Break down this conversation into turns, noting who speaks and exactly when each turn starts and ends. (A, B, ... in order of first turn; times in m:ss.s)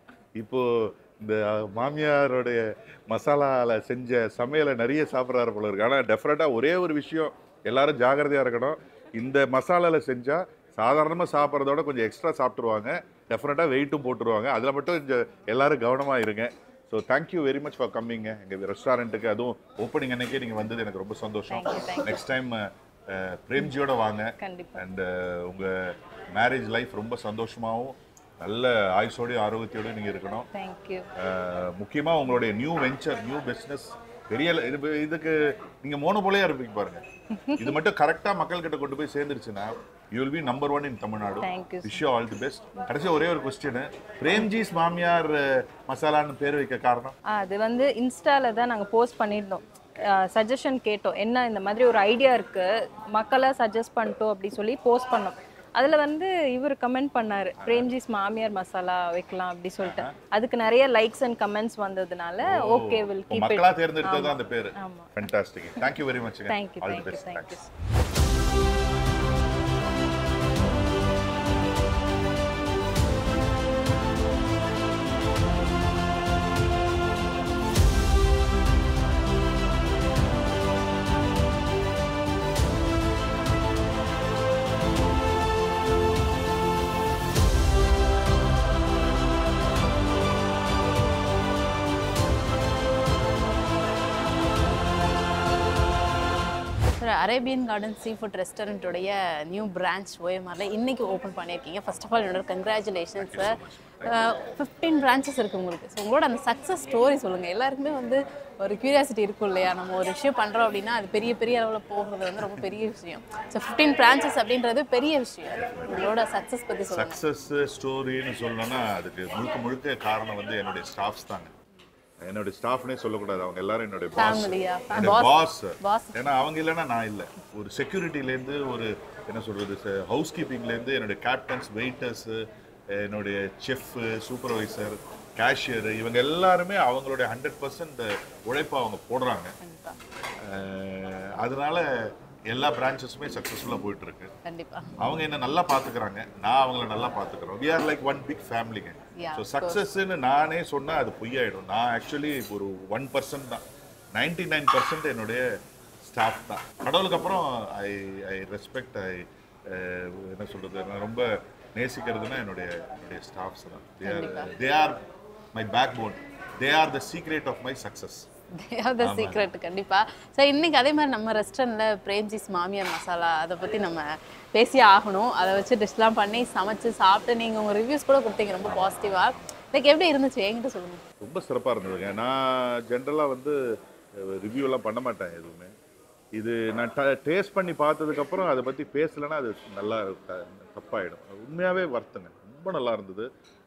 0:00.3-0:30.5 A
0:21.5-0:22.2 B
0:24.4-0:24.8 B
0:30.5-0:31.1 B
0:31.2-0:37.0 A
0:37.4-0:37.7 B
0:37.6-0:47.2 A
0:41.4-0:42.0 B
0:47.3-1:05.2 B
0:57.6-0:57.9 A
0:59.8-1:00.1 A
1:02.4-1:07.6 A
1:06.5-1:07.7 B
1:37.0-1:57.2 C
1:43.1-1:44.3 A
1:55.6-1:56.1 A
1:56.9-2:01.5 A
2:02.2-2:19.6 A
2:04.2-2:06.1 C
2:19.6-2:20.0 C
2:20.4-2:24.3 A
2:24.4-2:24.9 C
2:25.0-2:33.6 A
2:29.2-2:29.8 C
2:34.1-2:35.4 A
2:36.0-2:45.0 A
2:44.0-2:44.5 C
2:45.5-2:48.3 A
2:48.6-3:01.0 C
2:49.0-2:49.5 A
2:58.6-2:59.5 A
3:01.2-3:03.6 A
3:04.2-3:05.7 A
3:06.4-3:13.3 A